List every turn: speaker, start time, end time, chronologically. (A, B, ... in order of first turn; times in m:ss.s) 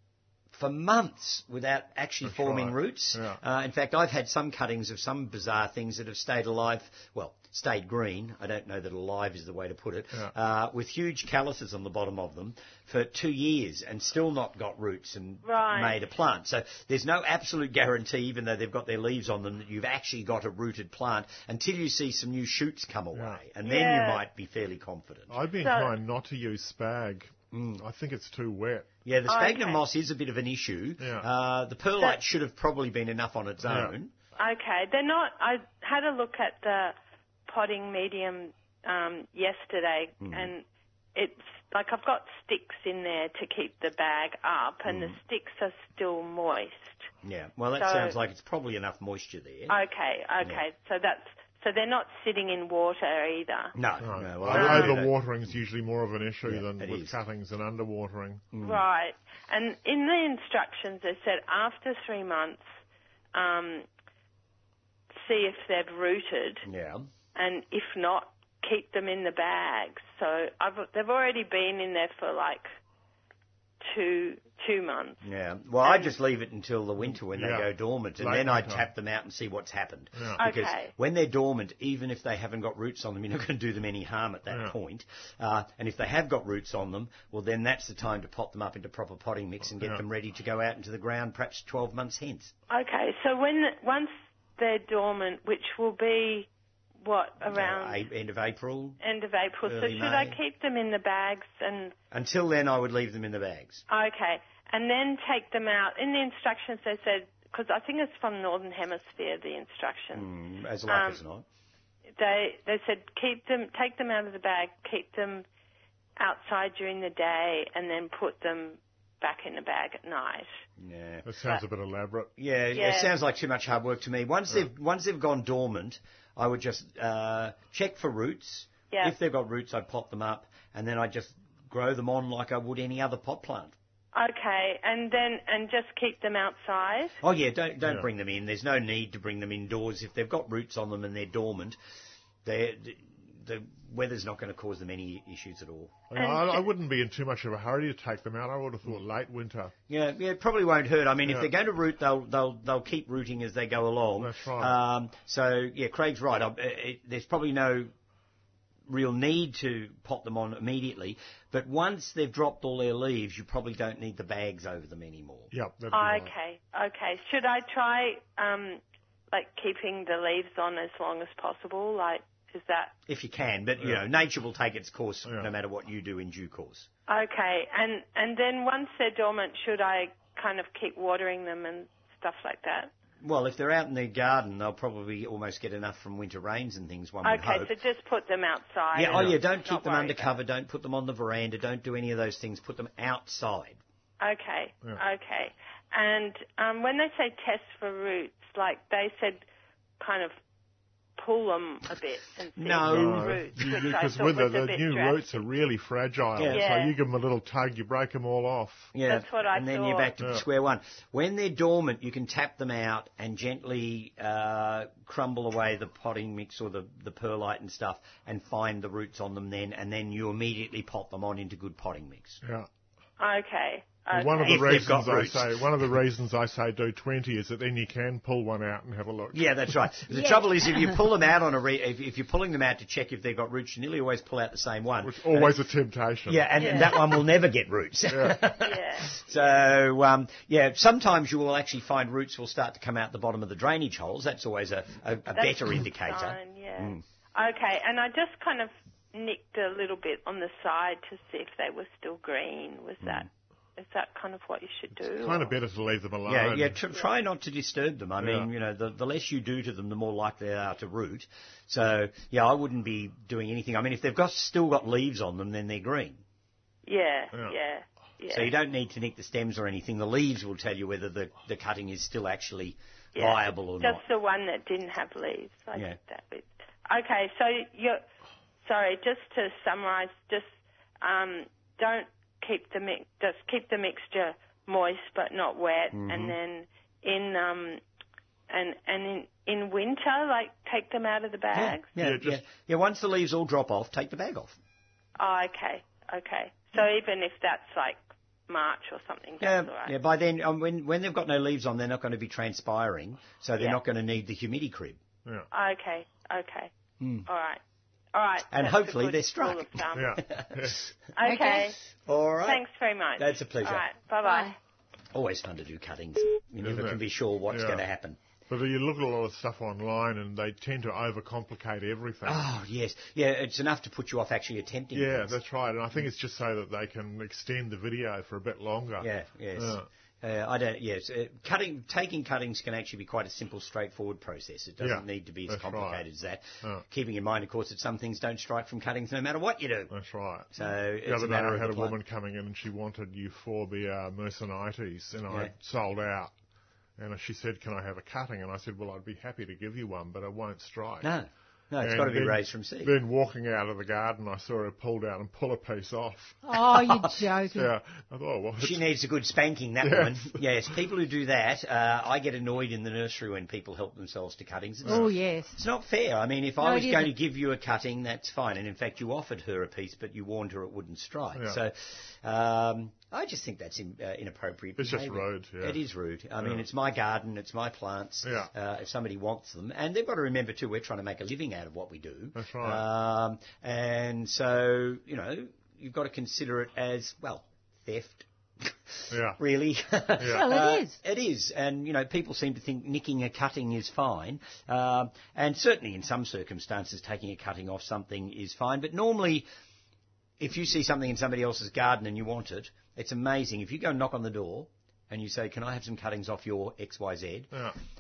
0:00.5-0:25.3 A
0:02.2-0:03.4 B
0:15.4-0:16.0 C
0:23.2-0:23.4 B
0:23.6-0:24.2 C
0:25.3-0:28.9 B
0:25.6-0:25.9 C
0:27.5-0:27.8 A
0:29.1-0:34.1 A
0:29.3-0:29.8 C
0:31.0-0:31.3 B
0:33.6-0:33.9 B
0:34.4-0:37.0 C
0:37.5-0:40.6 C
0:40.2-0:40.5 A
0:41.2-0:47.1 C
0:44.9-0:45.2 A
0:47.2-0:49.8 A
0:47.8-0:48.2 C
0:49.7-0:53.8 C
0:53.8-0:55.1 A
0:54.0-0:58.5 B
0:54.5-0:55.0 C
0:56.4-0:57.2 A
0:58.5-0:58.8 A
0:58.6-1:02.7 C
1:03.3-1:03.9 C
1:05.2-1:06.7 C
1:06.7-1:07.1 A
1:07.4-1:12.7 C
1:13.8-1:15.2 C
1:15.2-1:32.5 A
1:15.8-1:16.2 C
1:17.1-1:17.7 B
1:18.2-1:18.8 B
1:20.4-1:20.9 C
1:24.5-1:24.8 B
1:32.7-1:36.5 C
1:37.0-1:38.0 C
1:37.5-1:39.0 A
1:39.0-1:42.0 C
1:39.6-1:40.4 A
1:42.1-1:43.8 A
1:43.9-1:50.3 C
1:50.1-1:51.4 A
1:50.9-1:51.2 C
1:52.2-1:55.4 C
1:56.2-2:00.5 C
2:00.8-2:01.3 A
2:01.2-2:02.3 B
2:02.4-2:13.7 A
2:02.7-2:03.1 C
2:14.1-2:17.2 C
2:17.2-2:21.8 A
2:22.4-2:26.1 A
2:26.1-2:29.7 B
2:26.2-2:26.6 C
2:29.9-2:37.9 A
2:34.2-2:34.8 B
2:38.9-2:45.5 A
2:45.5-2:46.3 B
2:45.9-2:52.9 C
2:53.1-2:56.9 A
2:57.1-3:02.9 C
3:03.2-3:07.7 A
3:07.2-3:10.3 C
3:08.9-3:13.8 A
3:09.1-3:09.4 B
3:14.2-3:19.4 C
3:20.0-3:20.3 C
3:21.2-3:25.4 C
3:22.6-3:23.7 A
3:22.8-3:28.9 B
3:26.4-3:26.6 A
3:26.5-3:27.0 C
3:28.9-3:42.4 A
3:29.0-3:30.1 C
3:30.2-3:30.4 B
3:42.4-3:42.7 B
3:43.2-3:44.6 C
3:44.1-3:49.4 B
3:44.4-3:45.9 A
3:49.3-3:55.6 A
3:50.1-3:51.0 D
3:55.0-3:57.0 B
3:56.3-4:07.0 A
3:56.6-3:56.9 C
3:58.1-3:58.4 B
3:58.6-3:59.4 C
4:05.3-4:15.5 C
4:13.0-4:13.3 A
4:15.1-4:16.8 B
4:16.3-4:26.2 A
4:18.2-4:18.5 B
4:26.9-4:28.5 C
4:28.3-4:34.0 A
4:33.2-4:38.0 C
4:38.6-4:47.8 C
4:45.9-4:46.4 A
4:48.5-4:51.9 C
4:51.5-4:54.6 A
4:52.0-4:52.4 B
4:55.2-4:59.9 C
4:59.4-5:05.0 A
5:05.5-5:06.7 C
5:07.0-5:07.3 A
5:07.3-5:07.6 C
5:08.1-5:10.2 C
5:08.5-5:10.8 A
5:09.9-5:10.9 B
5:11.2-5:11.8 C
5:11.2-5:11.7 D
5:12.1-5:12.6 A
5:12.4-5:14.5 C
5:13.2-5:13.8 A
5:14.2-5:14.6 D
5:15.1-5:18.2 A
5:16.6-5:17.8 B
5:18.5-5:22.4 B
5:22.2-5:25.4 A
5:24.9-5:29.9 B
5:29.0-5:39.9 A
5:34.8-5:36.0 B
5:39.9-5:46.3 B
5:40.5-5:42.0 A
5:47.0-5:51.1 B
5:51.0-5:52.9 A
5:51.8-5:56.4 B
5:56.4-5:57.7 D
5:57.6-5:58.8 B
5:58.6-6:39.5 A
5:59.8-6:00.4 B
6:04.8-6:05.1 B
6:04.8-6:05.6 D
6:06.6-6:07.1 D
6:14.8-6:15.8 B
6:18.2-6:18.5 B
6:22.4-6:22.8 B
6:29.1-6:29.4 B
6:30.2-6:30.5 B
6:30.2-6:31.0 D
6:40.4-6:47.5 A